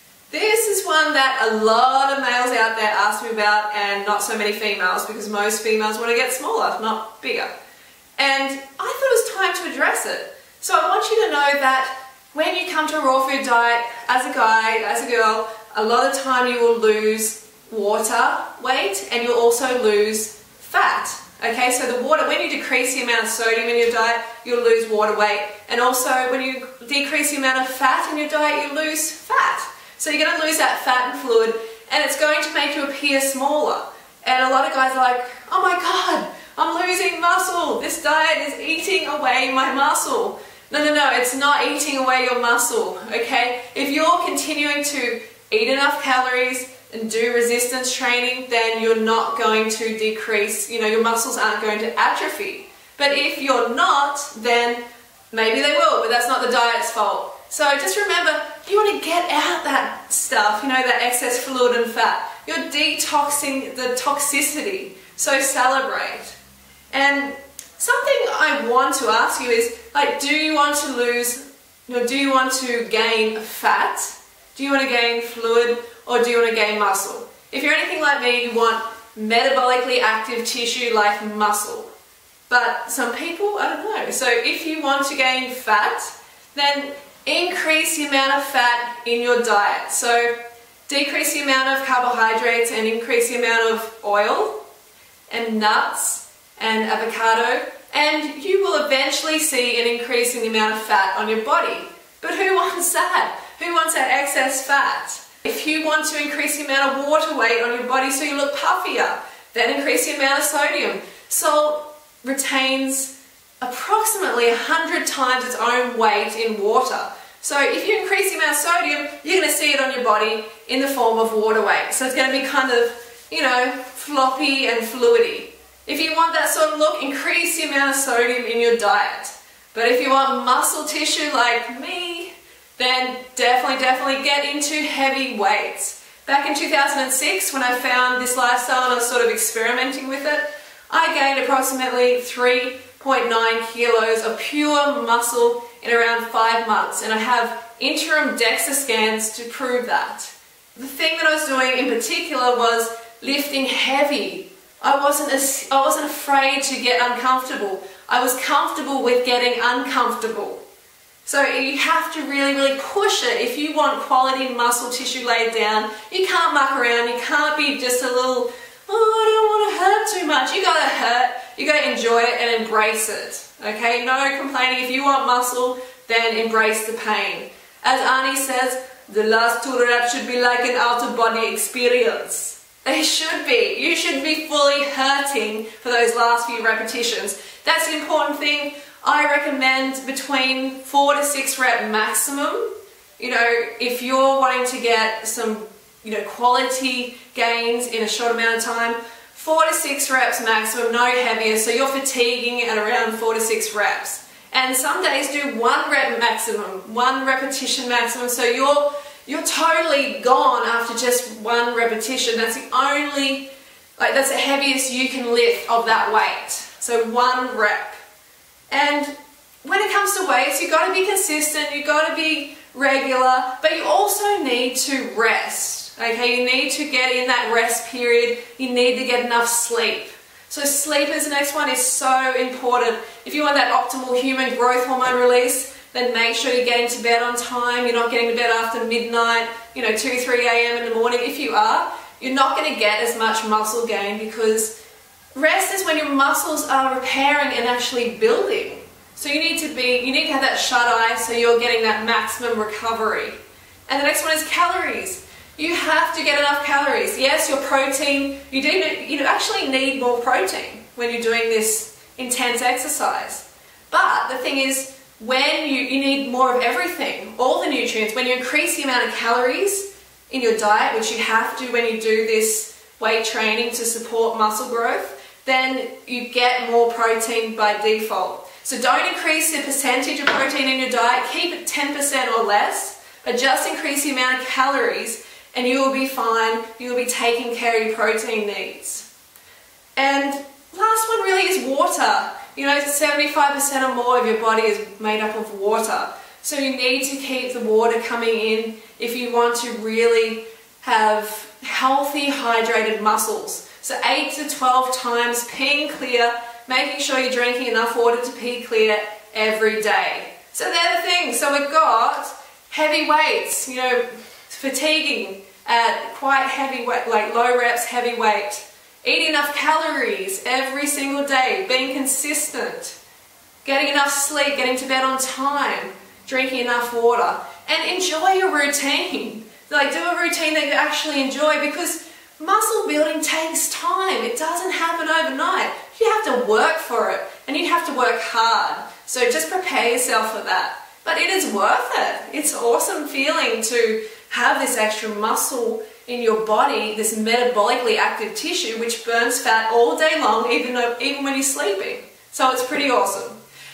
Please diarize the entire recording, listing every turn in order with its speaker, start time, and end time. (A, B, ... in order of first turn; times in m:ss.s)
0:00.3-0:07.5 A
0:08.2-1:06.4 A
1:06.9-1:21.9 A
1:22.5-1:30.4 A
1:30.9-1:34.6 A
1:35.3-2:40.6 A
2:41.2-3:33.5 A
3:34.0-3:38.0 A
3:38.7-3:39.1 A
3:39.6-4:04.7 A
4:05.4-4:13.4 A
4:13.9-4:49.1 A
4:50.0-5:23.0 A
5:23.6-5:53.4 A